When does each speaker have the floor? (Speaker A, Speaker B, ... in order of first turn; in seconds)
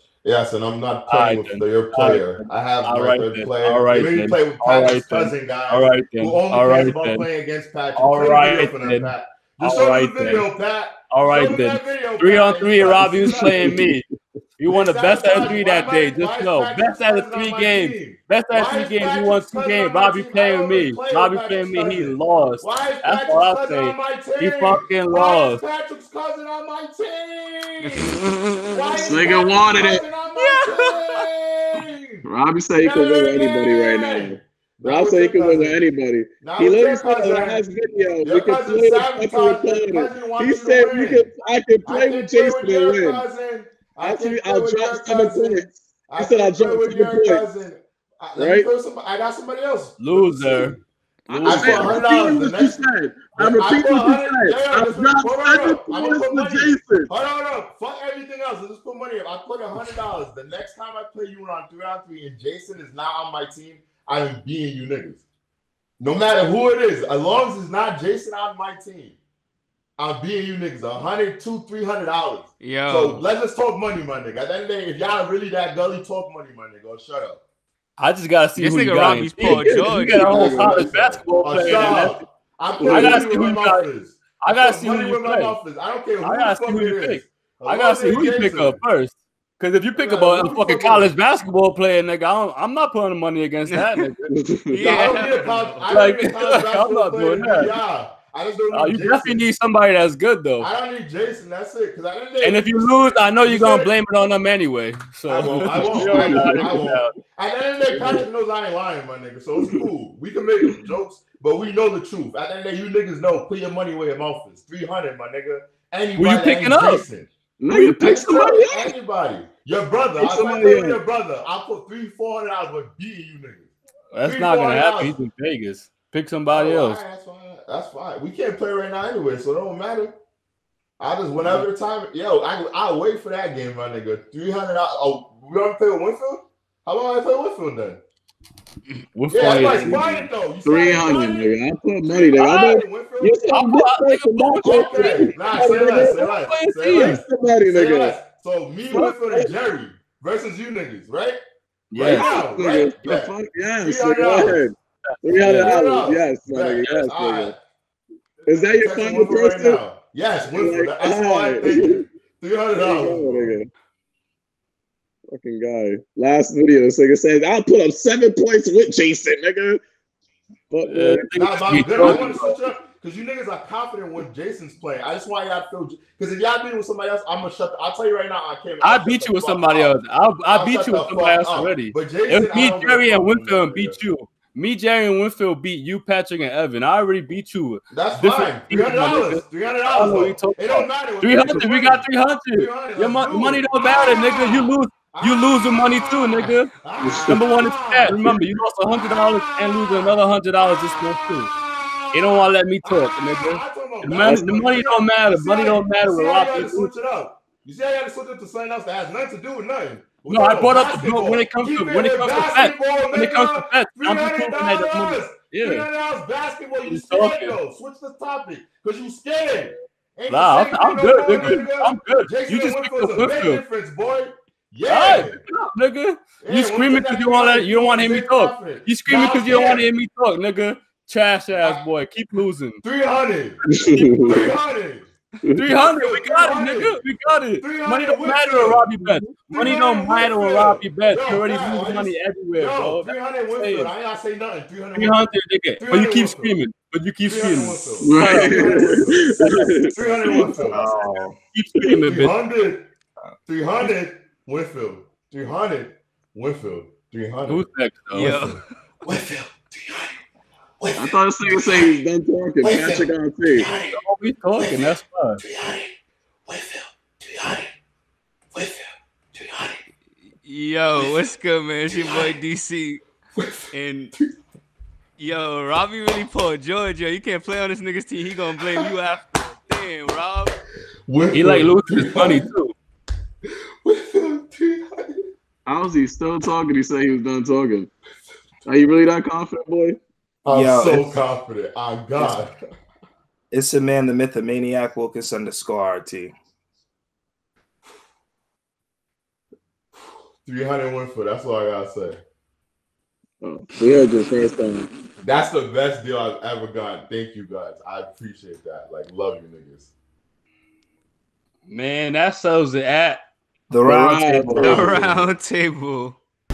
Speaker A: 0.2-13.8, 14.7-32.2, 32.8-35.8, 36.4-37.6, 38.2-41.3, 41.9-50.8, 51.4-52.8, 53.4-65.2, 66.0-69.2, 70.0-77.4, 79.5-88.8, 90.0-91.1, 94.8-99.4, 100.6-103.9, 105.3-123.7, 124.2-125.2, 126.5-130.1, 131.0-138.0, 139.3-141.5, 142.1-143.5, 144.6-151.4, 151.9-154.7, 155.3-157.6, 158.5-163.6, 171.3-179.9, 180.5-184.0, 187.9-200.2, 201.5-225.4, 226.4-229.8, 231.5-231.8, 232.8-233.6, 234.2-235.1, 235.6-237.0, 237.6-245.2, 245.8-246.6, 247.2-250.8, 251.8-252.9, 253.5-260.1, 260.8-261.8, 262.6-263.0, 263.6-263.9, 265.4-265.9, 266.5-267.7, 268.5-268.8, 269.3-269.8, 271.9-272.2, 273.4-274.3, 281.1-282.5, 283.8-285.2, 290.4-292.6, 300.4-302.2, 305.2-309.9
Speaker B: 1.1-7.3, 8.0-10.4, 11.1-14.1, 14.6-25.6, 50.0-50.8, 51.3-52.0, 78.0-82.2, 82.9-83.8, 84.4-85.5, 86.2-94.4, 95.9-97.7, 98.7-100.7, 102.4-107.1, 116.2-117.0, 117.7-118.3, 124.1-127.0, 131.4-131.7, 139.1-140.3, 143.5-147.2, 151.9-152.4, 155.4-155.8, 170.8-172.6, 178.8-196.7, 197.3-201.5, 202.1-206.9, 210.3-215.9, 216.9-217.6, 220.3-223.6, 224.8-232.8, 233.8-234.6, 235.5-243.9, 244.9-249.0, 251.5-252.3, 257.5-258.5, 263.9-265.4, 281.3-282.7, 311.7-313.2
Speaker C: 27.8-28.2, 72.6-73.2, 78.5-80.9, 93.7-94.1, 94.7-95.9, 258.1-259.1, 270.4-273.0, 273.7-274.1, 275.2-280.6, 314.6-316.1
Speaker D: 29.0-30.1, 32.2-43.2, 44.0-47.4, 48.3-48.7, 51.3-57.1, 81.7-82.0, 82.8-83.4, 94.3-94.8, 105.9-106.7, 117.6-118.9, 120.2-121.0, 139.5-140.1, 140.6-146.2, 146.9-148.2, 148.9-149.5, 152.1-157.5, 158.4-159.8, 160.5-162.0, 162.8-163.7, 165.3-169.8, 170.7-171.3, 172.0-172.3, 197.0-197.4, 233.7-234.3, 248.0-250.4, 260.9-263.7, 285.6-287.9, 288.6-290.0, 303.4-304.9, 313.9-315.1
Speaker E: 250.6-251.4, 290.5-291.1, 293.5-296.3, 313.7-315.1